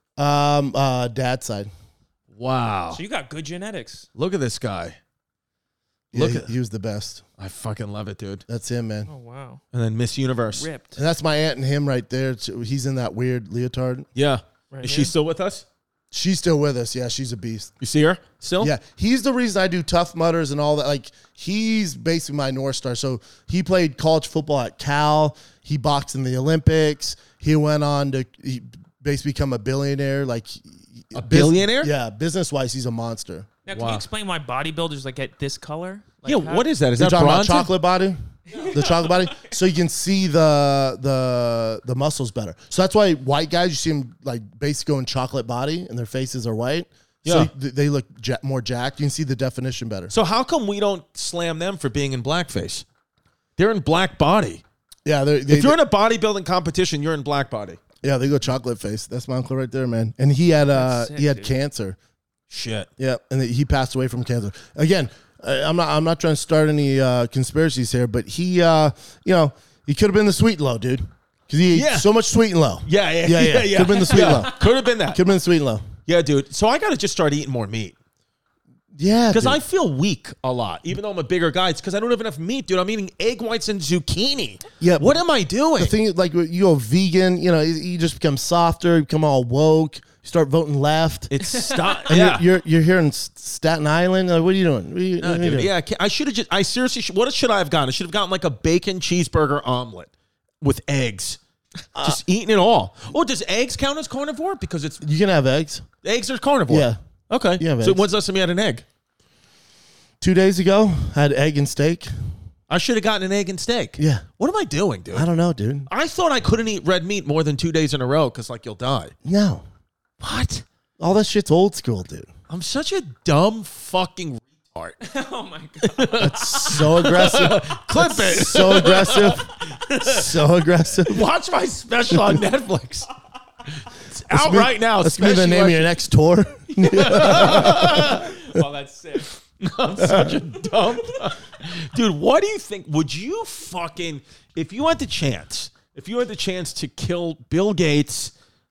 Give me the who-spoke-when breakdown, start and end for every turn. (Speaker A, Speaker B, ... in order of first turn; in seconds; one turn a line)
Speaker A: 0.2-1.7
Speaker B: 2.3-3.0
Speaker C: 2.9-4.1
Speaker B: 4.1-5.0
Speaker A: 6.1-7.2
Speaker B: 6.1-6.5
Speaker B: 7.4-8.4
Speaker A: 8.5-9.1
Speaker C: 9.1-9.6
Speaker B: 9.7-10.7
Speaker C: 10.6-11.0
Speaker A: 10.9-14.1
Speaker B: 14.2-15.6
Speaker C: 14.7-15.1
Speaker A: 16.1-17.7
Speaker B: 17.8-18.7
Speaker A: 18.6-33.5
Speaker B: 31.1-31.9
Speaker C: 33.6-36.7
Speaker B: 33.7-34.0
Speaker B: 36.2-37.7
Speaker A: 37.0-50.1
Speaker C: 38.5-39.4
Speaker B: 47.2-47.5
Speaker B: 50.1-52.8
Speaker B: 53.6-54.6
Speaker A: 55.0-55.8
Speaker B: 55.5-57.8
Speaker A: 58.0-62.0
Speaker C: 60.7-61.5
Speaker B: 62.5-62.9
Speaker A: 63.0-74.5
Speaker B: 71.7-72.1
Speaker B: 72.8-75.2
Speaker C: 74.1-74.7
Speaker A: 75.1-75.8
Speaker B: 76.0-77.9
Speaker A: 78.9-79.6
Speaker B: 79.3-85.9
Speaker A: 84.8-85.2
Speaker A: 85.8-91.3
Speaker B: 91.3-92.4
Speaker C: 91.5-92.1
Speaker A: 92.1-95.7
Speaker B: 95.2-100.1
Speaker B: 100.6-101.4
Speaker A: 101.9-102.2
Speaker B: 102.0-105.0
Speaker A: 105.0-105.9
Speaker B: 106.0-108.8
Speaker A: 106.7-107.0
Speaker A: 107.6-108.0
Speaker A: 110.2-112.1
Speaker B: 112.7-115.3
Speaker A: 114.0-114.2
Speaker A: 115.1-115.9
Speaker B: 115.9-119.1
Speaker A: 119.2-119.6
Speaker B: 120.2-120.6
Speaker A: 121.0-122.3
Speaker B: 122.5-125.0
Speaker C: 125.0-127.3
Speaker B: 125.8-130.4
Speaker A: 126.2-131.2
Speaker C: 128.5-129.3
Speaker B: 131.0-133.1
Speaker A: 132.1-132.4
Speaker B: 133.7-135.9
Speaker A: 134.3-138.3
Speaker B: 136.8-138.4
Speaker C: 137.3-139.3
Speaker B: 139.6-148.3